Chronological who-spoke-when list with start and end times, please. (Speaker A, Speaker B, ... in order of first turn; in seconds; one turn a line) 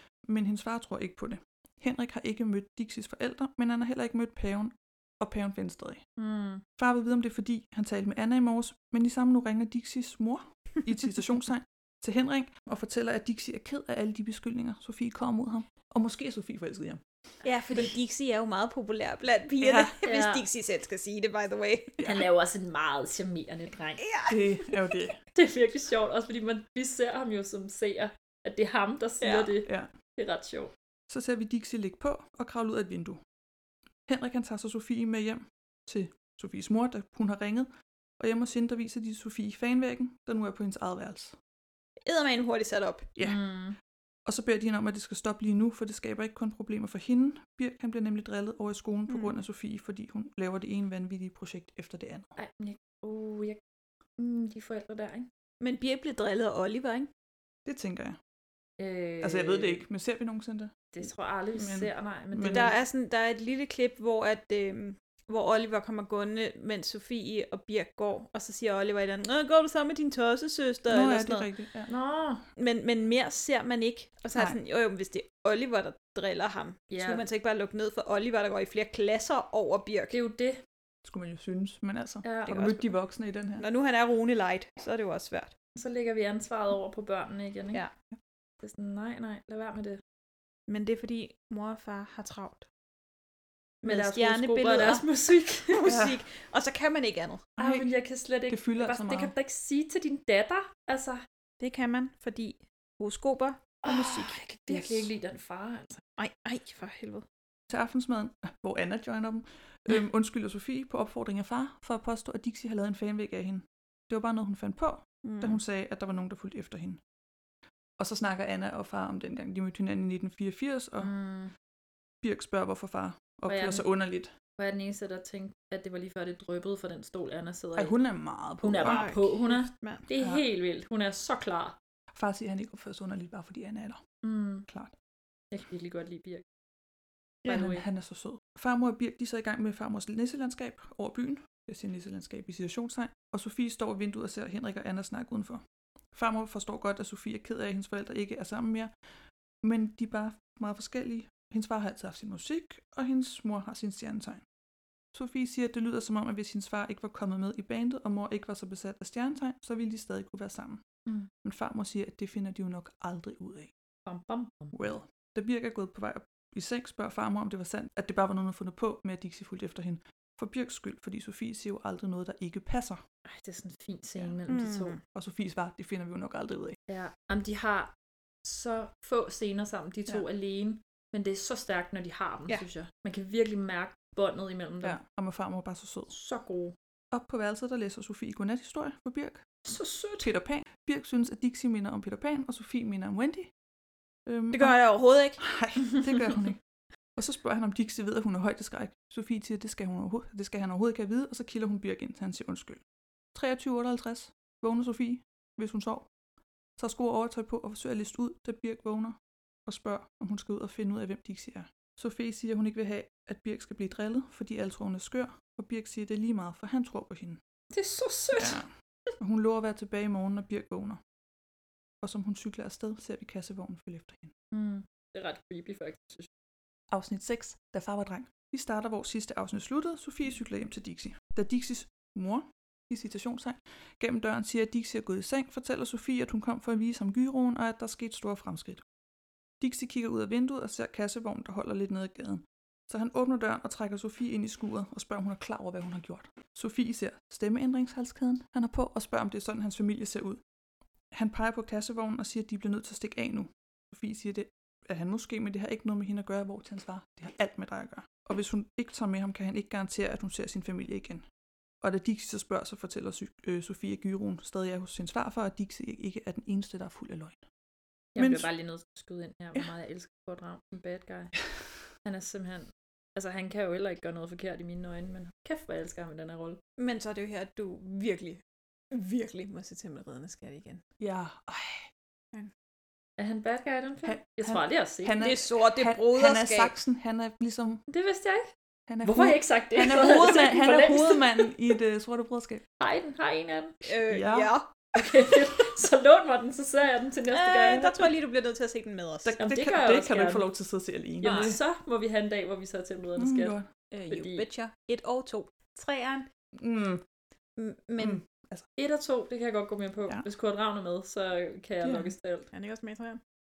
Speaker A: 0.2-6.0
Speaker B: 6.2-6.6
Speaker A: 6.8-17.0
Speaker C: 17.4-22.2
Speaker A: 19.6-19.9
Speaker B: 20.0-20.4
Speaker B: 22.0-24.0
Speaker C: 24.0-24.4
Speaker A: 24.3-25.2
Speaker B: 25.3-30.7
Speaker C: 29.2-29.6
Speaker A: 31.1-33.2
Speaker A: 34.1-37.7
Speaker A: 38.2-41.4
Speaker C: 42.0-43.1
Speaker B: 43.2-43.8
Speaker A: 44.3-52.3
Speaker B: 52.4-53.6
Speaker B: 54.2-55.3
Speaker C: 55.6-57.1
Speaker A: 57.7-58.2
Speaker B: 58.8-59.8
Speaker A: 59.2-60.8
Speaker B: 60.9-62.8
Speaker A: 61.5-62.7
Speaker C: 62.4-71.5
Speaker A: 70.9-71.9
Speaker B: 71.9-72.4
Speaker C: 72.6-80.2
Speaker B: 76.9-77.2
Speaker B: 80.1-80.6
Speaker A: 81.0-83.7
Speaker B: 82.2-82.9
Speaker C: 83.6-85.5
Speaker B: 85.8-87.8
Speaker B: 88.6-90.0
Speaker C: 90.7-92.7
Speaker C: 93.8-95.1
Speaker B: 93.8-95.8
Speaker C: 95.7-97.6
Speaker A: 95.8-96.2
Speaker A: 97.6-97.9
Speaker B: 97.6-101.2
Speaker A: 98.5-99.3
Speaker C: 101.6-104.4
Speaker B: 103.8-106.0
Speaker A: 104.7-105.1
Speaker C: 106.2-107.2
Speaker A: 107.7-117.0
Speaker C: 115.2-115.6
Speaker A: 118.0-121.1
Speaker B: 121.0-121.5
Speaker A: 122.2-124.3
Speaker B: 123.5-123.9
Speaker B: 124.6-128.0
Speaker A: 127.8-129.1
Speaker B: 128.6-131.8
Speaker C: 128.8-130.0
Speaker A: 130.2-130.4
Speaker A: 132.1-134.0
Speaker B: 134.2-134.7
Speaker A: 134.7-134.9
Speaker B: 135.5-136.4
Speaker B: 137.5-137.8
Speaker A: 137.5-145.6
Speaker A: 146.1-148.9
Speaker A: 149.6-154.4
Speaker A: 155.1-160.8
Speaker A: 161.4-163.7
Speaker B: 164.1-164.8
Speaker A: 164.7-173.0
Speaker B: 173.2-175.0
Speaker C: 174.5-175.0
Speaker A: 175.1-176.8
Speaker B: 176.9-177.9
Speaker B: 178.4-185.0
Speaker A: 184.8-186.1
Speaker B: 186.1-186.8
Speaker A: 187.1-189.5
Speaker B: 189.7-190.3
Speaker A: 190.2-193.5
Speaker A: 194.3-194.8
Speaker C: 194.5-195.4
Speaker A: 195.4-196.6
Speaker A: 197.2-202.8
Speaker A: 203.3-206.1
Speaker A: 206.8-217.4
Speaker B: 217.7-218.6
Speaker A: 218.4-218.7
Speaker A: 219.2-221.0
Speaker A: 222.0-224.3
Speaker B: 224.5-226.3
Speaker A: 226.9-238.8
Speaker A: 239.6-250.4
Speaker A: 251.1-261.3
Speaker A: 261.8-267.4
Speaker B: 268.1-271.3
Speaker A: 268.2-268.5
Speaker B: 272.0-276.6
Speaker C: 276.8-280.8
Speaker A: 281.0-281.9
Speaker B: 283.2-285.2
Speaker A: 284.1-287.8
Speaker C: 285.2-286.7
Speaker B: 287.9-288.5
Speaker A: 288.9-292.6
Speaker B: 289.0-291.5
Speaker B: 292.8-293.8
Speaker C: 293.9-294.7
Speaker A: 294.1-294.5
Speaker B: 295.0-297.9
Speaker C: 297.3-299.3
Speaker A: 297.6-297.9
Speaker A: 299.2-301.6
Speaker B: 299.4-300.5
Speaker B: 301.2-303.6
Speaker C: 301.2-301.5
Speaker A: 303.2-303.7
Speaker C: 303.9-306.3
Speaker B: 304.1-304.5
Speaker A: 306.6-307.0
Speaker C: 307.6-308.2
Speaker A: 308.0-308.7
Speaker B: 308.8-312.5
Speaker A: 311.8-312.1
Speaker C: 312.5-313.2